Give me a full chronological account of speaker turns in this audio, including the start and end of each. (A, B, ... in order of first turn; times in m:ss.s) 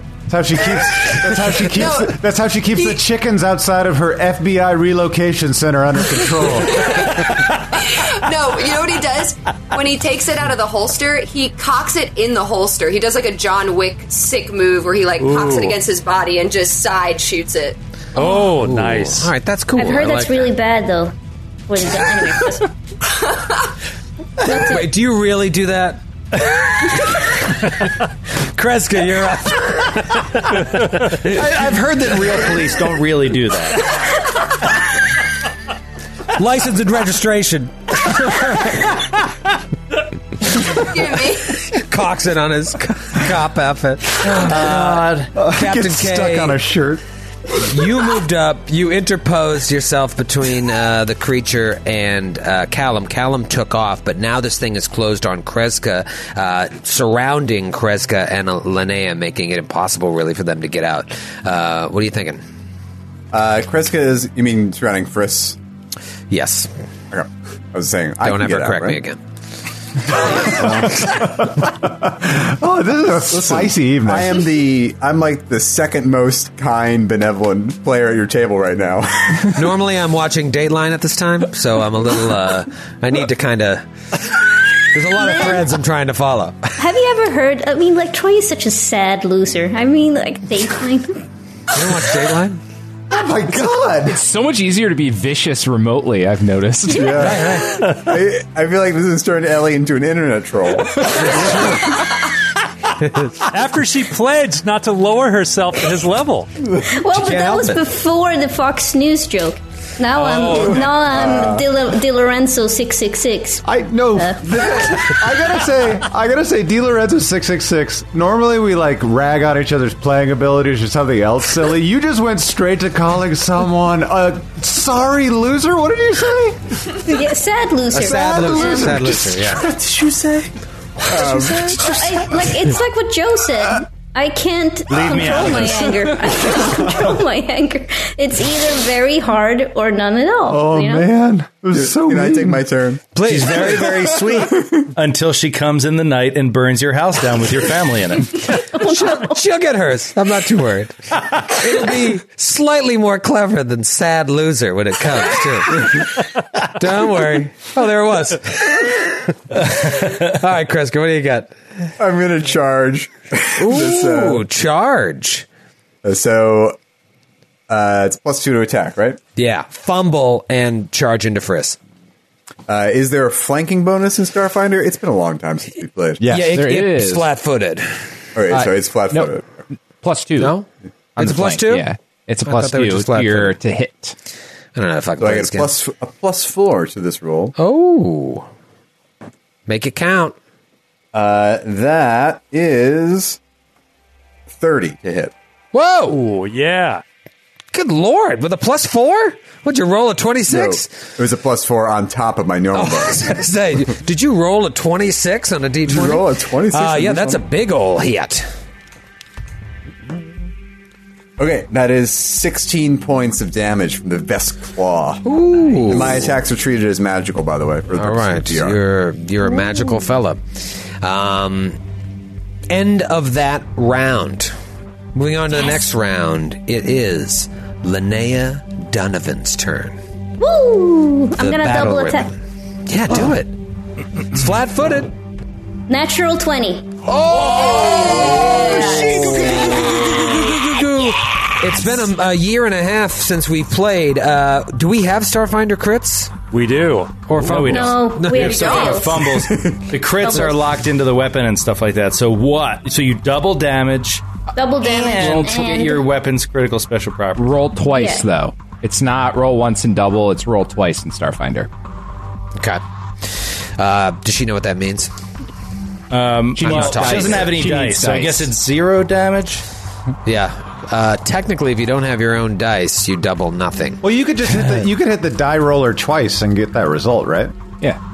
0:00.3-0:07.2 A
0:01.8-0:02.2 B
0:06.7-0:17.8 B
0:15.2-0:15.8 C
0:18.2-0:19.3 C
0:18.2-0:20.5 D
0:19.8-0:21.1 E
0:21.7-0:22.7 E
0:23.2-0:23.6 B
0:24.4-0:24.9 E
0:24.4-0:26.0 D
0:28.4-0:30.6 D
0:31.0-0:33.8 F
0:36.3-0:39.0 D
0:40.7-0:41.7 B
0:41.7-0:46.6 D
0:44.2-0:45.3 F
0:45.4-0:47.0 A
0:47.5-1:02.4 D
1:03.3-1:05.6 G
1:06.3-1:06.7 D
1:07.1-1:09.0 G
1:08.2-1:09.2 D
1:10.1-1:11.2 G
1:10.1-1:11.2 D
1:11.2-1:14.4 A
1:13.3-1:19.6 G
1:19.5-1:26.8 D
1:26.8-1:31.2 E
1:31.7-1:32.6 D
1:33.1-1:34.2 A
1:34.1-1:37.1 H
1:36.9-1:37.5 A
1:37.1-1:41.9 G
1:37.2-1:37.8 D
1:41.2-1:41.9 D
1:43.5-1:46.5 C
1:46.8-1:55.1 E
1:47.1-1:47.8 D
1:50.2-1:50.8 C
1:51.1-1:51.6 G
1:53.6-2:07.0 A
2:07.0-2:09.0 E
2:07.9-2:09.7 D
2:07.9-2:09.8 A
2:09.7-2:10.5 F
2:11.1-2:11.9 G
2:11.8-2:21.1 E
2:14.9-2:16.1 F
2:20.5-2:22.6 A
2:21.8-2:23.0 G
2:23.1-2:24.1 D
2:23.2-2:28.4 F
2:23.7-2:24.9 G
2:28.6-2:41.6 D
2:28.8-2:29.3 E
2:42.0-2:44.4 G
2:43.6-2:45.5 D
2:46.0-2:46.8 G
2:47.7-2:49.2 G
2:49.4-2:51.8 D
2:52.7-2:56.2 G
2:56.2-2:57.3 H
2:56.3-2:57.9 D
2:58.4-2:59.7 G
2:58.5-2:59.3 H
3:00.0-3:00.6 H
3:00.4-3:01.9 D
3:01.2-3:04.2 H
3:02.4-3:03.6 D
3:04.8-3:05.7 D
3:05.2-3:07.6 G
3:07.6-3:08.5 D
3:09.7-3:10.4 D
3:11.1-3:13.4 G
3:14.5-3:15.3 G
3:15.7-3:16.2 D
3:16.1-3:17.0 C
3:17.7-3:21.0 D
3:20.5-3:23.3 G
3:22.7-3:28.5 D
3:25.9-3:27.4 G
3:31.4-3:35.3 G
3:35.2-3:36.4 D
3:35.8-3:38.8 G
3:37.9-3:41.8 D
3:42.7-3:44.5 D
3:45.1-3:50.0 D
3:50.4-3:52.3 E
3:51.4-3:53.5 D
3:54.3-3:55.1 D
3:55.9-3:57.0 E
3:57.0-4:06.3 D
3:57.5-3:59.3 B
3:58.6-3:59.5 E
4:06.5-4:07.2 C
4:07.3-4:09.0 D
4:07.4-4:14.2 F
4:07.6-4:09.3 E
4:09.3-4:09.8 G
4:10.2-4:10.6 E
4:14.6-4:16.1 E
4:14.8-4:17.5 F
4:17.4-4:21.7 H
4:17.9-4:18.3 E
4:22.6-4:25.1 D
4:26.1-4:29.6 F
4:26.6-4:28.5 H
4:26.6-4:27.8 D
4:30.2-4:34.0 D
4:34.0-4:37.5 A